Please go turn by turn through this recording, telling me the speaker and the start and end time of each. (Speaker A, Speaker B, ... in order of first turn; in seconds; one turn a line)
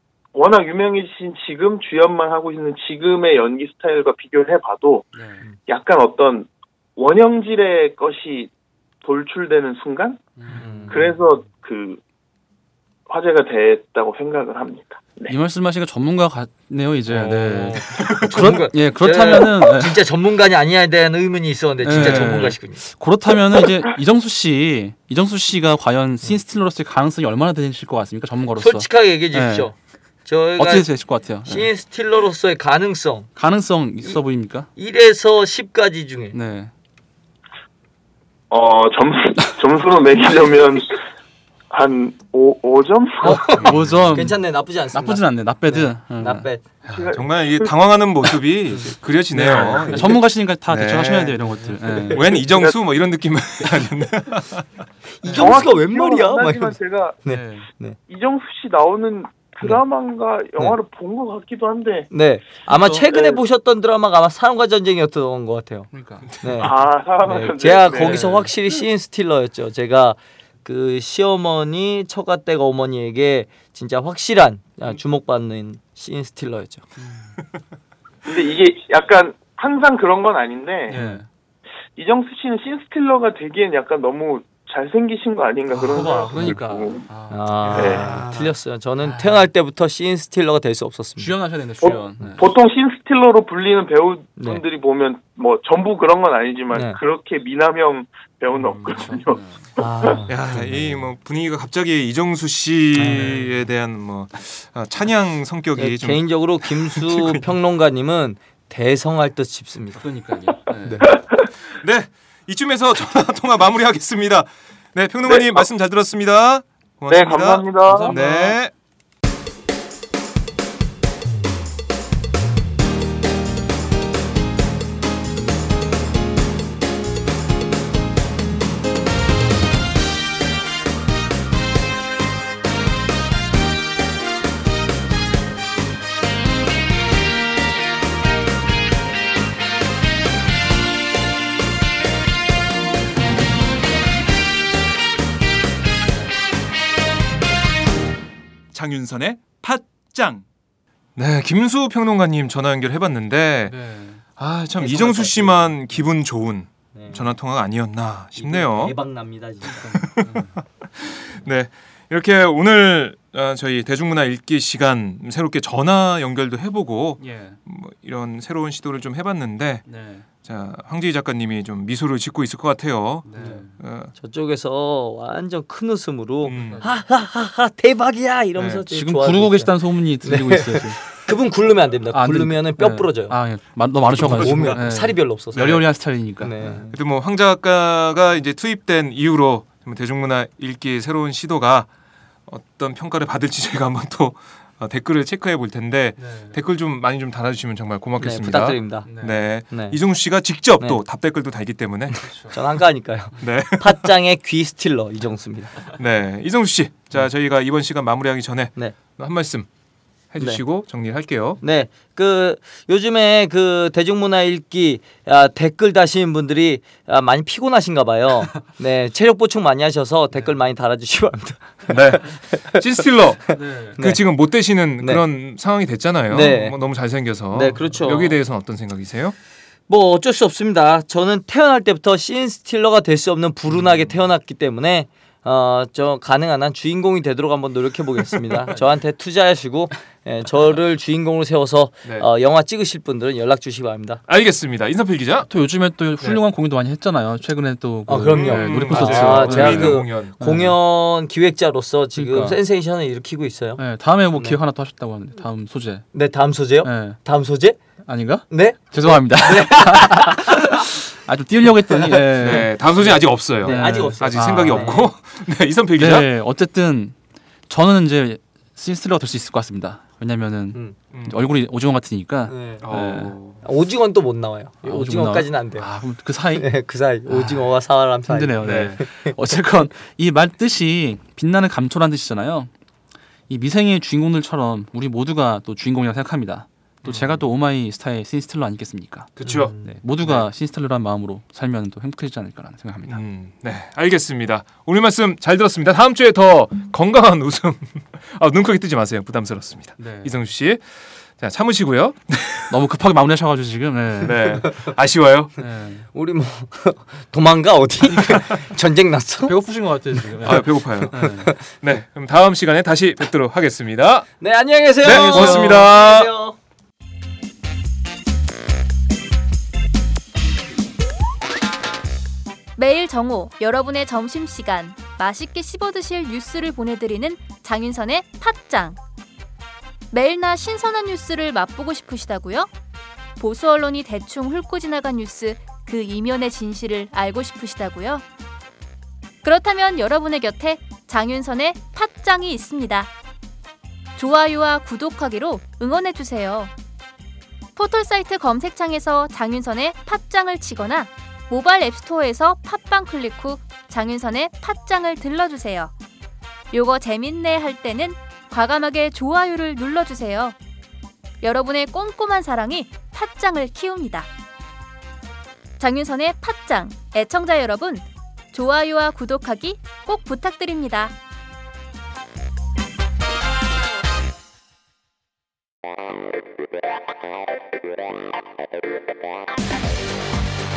Speaker A: 0.3-5.1
Speaker B: 5.1-5.5
Speaker A: 5.7-8.5
Speaker A: 9.0-10.2
Speaker B: 10.4-11.2
Speaker C: 10.5-11.1
Speaker A: 10.9-12.0
Speaker A: 13.1-15.3
Speaker B: 15.3-20.0
Speaker C: 17.1-22.8
Speaker D: 18.0-18.6
Speaker B: 21.8-29.7
Speaker D: 21.9-22.4
Speaker C: 28.6-29.7
Speaker C: 30.2-30.9
Speaker B: 30.6-31.7
Speaker C: 31.5-33.3
Speaker B: 33.4-34.7
Speaker C: 34.8-36.4
Speaker B: 36.3-36.7
Speaker A: 38.5-41.0
Speaker A: 41.7-43.6
Speaker B: 43.2-44.4
Speaker C: 43.2-46.6
Speaker B: 44.9-46.5
Speaker A: 46.9-47.7
Speaker D: 46.9-51.4
Speaker B: 49.3-52.3
Speaker C: 49.4-50.2
Speaker C: 51.7-52.2
Speaker D: 52.1-54.7
Speaker A: 52.5-52.8
Speaker C: 55.2-58.0
Speaker B: 55.2-55.6
Speaker A: 55.3-57.2
Speaker B: 57.3-57.7
Speaker A: 58.1-62.1
Speaker C: 62.1-65.9
Speaker B: 62.7-63.0
Speaker A: 63.1-63.4
Speaker B: 65.9-66.7
Speaker C: 66.4-76.8
Speaker A: 66.6-68.5
Speaker B: 68.0-68.5
Speaker B: 77.0-77.4
Speaker A: 78.3-81.0
Speaker B: 80.9-81.3
Speaker C: 81.0-81.2
Speaker A: 82.0-87.0
Speaker B: 85.7-89.5
Speaker C: 86.0-86.6
Speaker C: 87.3-91.3
Speaker A: 87.7-88.2
Speaker B: 91.2-92.5
Speaker A: 91.8-99.8
Speaker C: 94.4-94.6
Speaker C: 96.7-97.0
Speaker B: 98.6-99.7
Speaker C: 99.8-101.1
Speaker D: 100.3-107.5
Speaker C: 103.0-103.5
Speaker C: 105.8-110.0
Speaker B: 110.0-111.1
Speaker D: 111.7-118.7
Speaker A: 115.2-115.7
Speaker A: 117.1-118.1
Speaker B: 117.9-118.6
Speaker D: 148.7-150.4
Speaker D: 151.2-153.8
Speaker B: 153.7-154.2
Speaker D: 154.4-158.9
Speaker C: 154.8-156.0
Speaker C: 156.9-157.3
Speaker C: 158.4-159.8
Speaker B: 159.7-160.6
Speaker D: 159.8-169.9
Speaker B: 167.2-167.6
Speaker B: 169.9-170.3
Speaker D: 170.4-174.1
Speaker B: 173.2-173.7
Speaker C: 174.2-183.4
Speaker D: 176.4-176.8
Speaker B: 176.6-176.9
Speaker D: 178.6-178.8
Speaker B: 178.9-181.1
Speaker B: 182.1-186.8
Speaker D: 184.1-185.0
Speaker C: 184.2-185.9
Speaker C: 186.4-186.9
Speaker D: 186.9-191.9
Speaker D: 192.5-202.3
Speaker B: 196.2-196.6
Speaker C: 198.2-199.1
Speaker B: 199.1-199.5
Speaker C: 199.7-200.0
Speaker B: 202.2-202.6
Speaker C: 202.4-205.7
Speaker D: 203.4-204.1
Speaker D: 205.9-209.7
Speaker D: 210.3-211.6
Speaker C: 211.6-222.8
Speaker D: 221.9-229.4
Speaker B: 223.5-224.0
Speaker C: 224.0-224.2
Speaker C: 225.0-225.2
Speaker C: 226.3-226.8
Speaker C: 227.5-228.4
Speaker C: 229.9-244.2
Speaker D: 244.3-245.5
Speaker B: 245.5-250.8
Speaker C: 248.1-253.8
Speaker D: 248.3-250.3
Speaker B: 252.2-252.6
Speaker B: 253.8-256.1
Speaker C: 254.3-254.6
Speaker C: 256.1-257.8
Speaker B: 256.8-257.2
Speaker B: 258.1-263.0
Speaker C: 258.5-260.9
Speaker D: 262.3-266.3
Speaker C: 263.0-265.1
Speaker B: 263.6-265.1
Speaker B: 266.0-267.1
Speaker B: 267.7-273.4
Speaker D: 271.1-271.5
Speaker C: 272.5-272.9
Speaker D: 272.8-273.6
Speaker C: 273.6-275.9
Speaker B: 274.8-276.7
Speaker C: 276.6-279.3
Speaker B: 277.3-277.7
Speaker B: 278.3-282.7
Speaker D: 278.6-279.0
Speaker B: 283.5-293.2
Speaker D: 287.0-287.4
Speaker D: 289.4-290.5
Speaker C: 289.4-290.0
Speaker D: 293.1-302.8
Speaker B: 300.0-300.4
Speaker B: 302.7-304.6
Speaker D: 304.2-305.5
Speaker B: 305.6-306.1
Speaker C: 306.1-309.6
Speaker B: 309.4-311.5
Speaker D: 310.4-314.3
Speaker C: 314.4-316.6
Speaker D: 315.0-316.3
Speaker B: 315.0-315.9
Speaker E: 322.8-329.0
Speaker E: 330.1-332.7
Speaker E: 333.4-338.2
Speaker E: 339.4-343.1
Speaker E: 344.2-346.7
Speaker E: 347.8-355.9
Speaker E: 356.7-360.6
Speaker E: 361.4-364.3
Speaker E: 365.8-371.1